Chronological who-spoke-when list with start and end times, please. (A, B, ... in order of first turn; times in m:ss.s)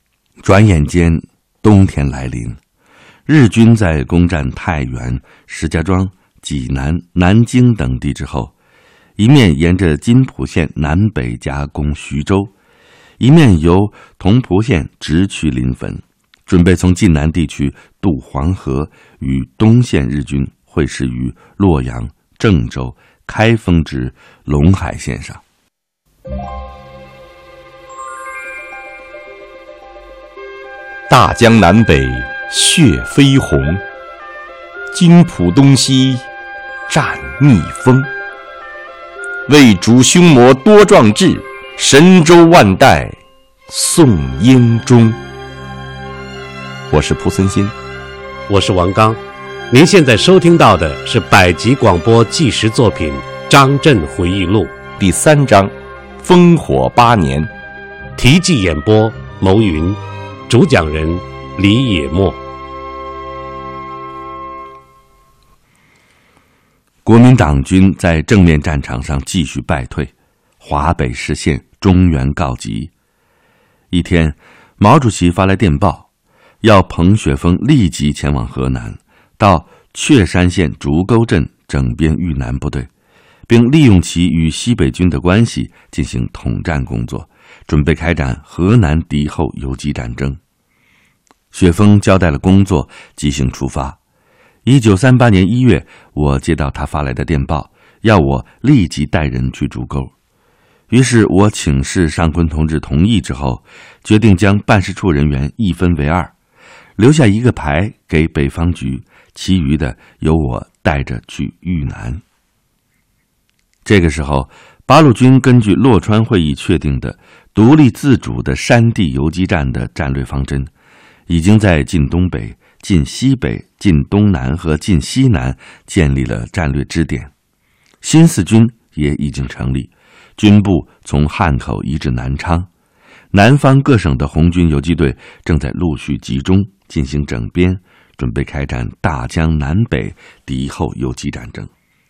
0:00.4-0:02.6 A
0:03.3-0:08.5 A
0:09.2-0:12.5 A
0:13.2-0:25.4 A
0:31.1-0:33.8 B
0:34.9-0:36.3 B
0:36.9-0:38.1 B
0:39.5-0:43.2 B
0:43.7-0:45.2 B
0:46.9-0:47.8 B
0:48.5-0:49.2 C
0:49.7-0:54.8 C
0:55.0-0:57.5 B
0:58.2-1:02.4 C
1:07.0-1:12.9 A
1:13.9-1:16.1 A
1:16.6-1:22.9 A
1:23.5-1:30.4 A
1:31.5-1:34.0 A
1:34.6-1:40.1 A
1:40.9-1:46.3 A
1:47.0-1:52.2 A
1:53.8-2:00.7 A
2:01.3-2:07.3 A
2:08.0-2:12.7 A
2:13.3-2:21.7 A